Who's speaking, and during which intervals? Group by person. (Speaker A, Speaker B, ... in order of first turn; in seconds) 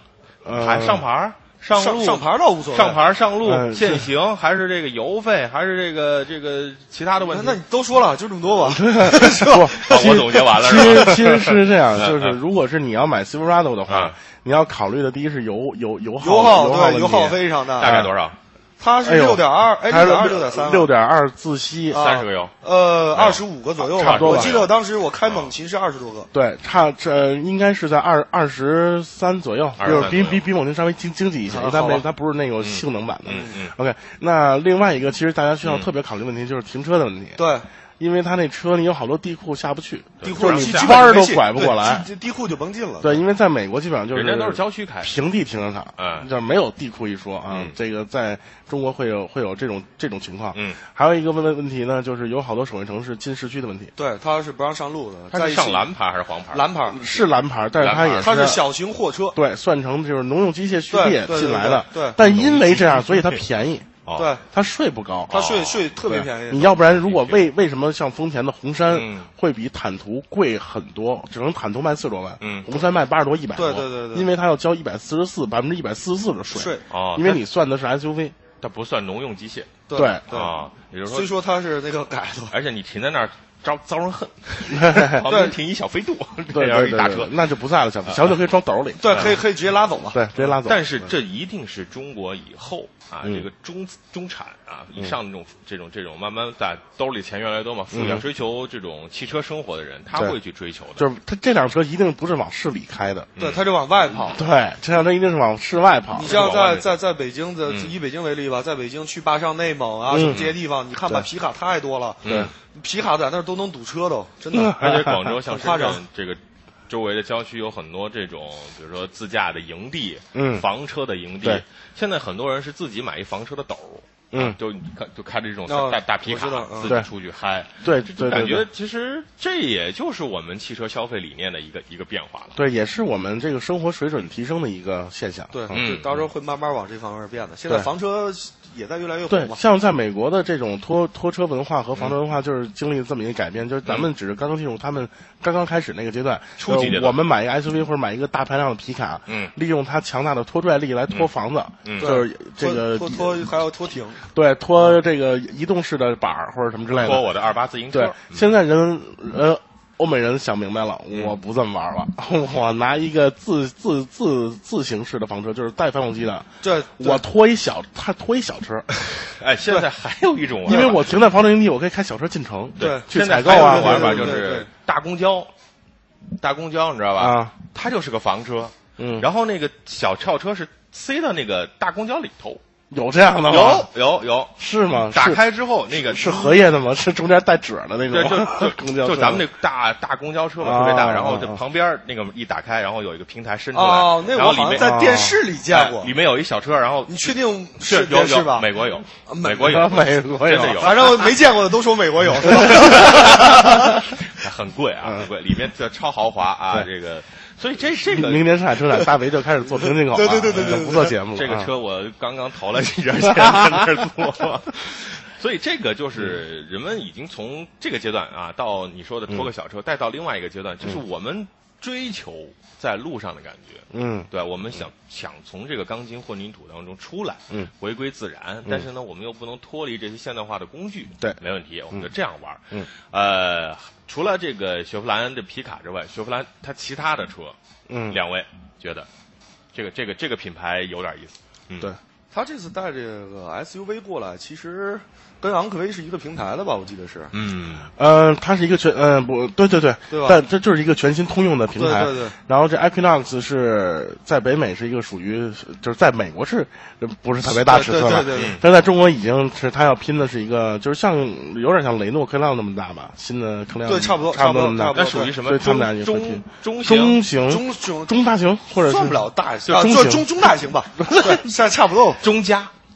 Speaker A: 0.4-1.1, 3.4-4.1, 8.6-18.1, 19.0-22.0, 23.9-24.7, 26.3-37.5, 38.0-42.1, 43.0-53.9, 56.9-58.6, 59.3-64.0, 64.5-65.5, 66.0-78.3, 80.0-80.2, 84.7-85.2, 86.5-89.4, 90.1-91.1, 97.9-98.2, 101.0-103.3, 104.1-106.4, 110.1-110.5, 114.5-115.4, 120.3-120.7, 124.3-124.6, 127.8-128.7, 132.6-135.8, 139.3-153.5, 154.3-157.3, 157.9-168.9, 170.7-174.4, 177.2-177.5, 179.0-179.3, 182.9-183.9, 184.6-189.4, 190.6-191.6, 194.8-195.4, 199.6-201.1, 202.5-204.0, 208.0-211.7, 213.3-213.7, 223.9-224.3, 237.9-238.2, 248.0-270.3, 271.1-271.4
Speaker B: 0.5-7.6, 9.7-12.4, 13.9-14.2, 17.8-18.4, 21.9-22.6, 23.1-23.4, 23.9-24.7, 25.3-25.5, 29.8-30.4, 32.6-33.8, 35.6-35.9, 40.2-41.2, 44.1-45.1, 46.0-46.3, 47.5-47.8, 50.5-50.8, 55.3-56.6, 57.8-58.5, 62.2-63.4, 64.0-64.3, 65.3-65.9, 66.8-67.5, 68.9-69.3, 72.4-72.7, 76.9-77.4, 78.6-81.3, 82.5-87.4, 88.1-88.3, 89.1-89.4, 90.4-101.0, 103.4-103.6, 106.2-106.9, 107.7-107.9, 112.2-112.5, 114.7-132.6, 135.7-136.3, 146.6-147.2, 149.3-149.5, 151.8-152.1, 156.9-158.5, 161.1-161.4, 169.0-171.0, 172.8-175.5, 176.4-182.6, 183.5-184.6, 185.1-186.6, 188.1-195.0, 195.7-201.3, 202.5-208.5, 210.6-237.6, 238.1-239.1, 239.7-241.9, 247.3-247.9, 258.3-258.6, 264.9-267.2, 272.2-272.7
Speaker C: 1.8-3.0, 7.2-11.3, 16.2-18.0, 18.8-20.9, 21.9-26.3, 31.5-32.1, 33.3-33.6, 37.4-37.7, 40.2-43.2, 54.0-55.9, 56.5-57.0, 58.2-59.4, 60.9-62.2, 64.2-64.4, 65.3-66.8, 73.5-74.3, 76.5-76.8, 79.9-80.6, 81.1-82.5, 85.2-85.6, 89.0-90.2, 103.4-104.5, 106.1-114.8, 115.4-116.0, 125.7-126.9, 135.5-139.6, 152.0-154.9, 166.6-167.2, 170.7-171.0, 172.8-174.7, 193.7-196.1, 197.1-198.7, 199.3-200.0, 200.7-204.0, 209.8-211.2, 242.3-247.3, 250.1-250.4, 251.8-252.4, 257.4-258.6, 263.9-265.4, 267.5-268.2, 268.8-272.2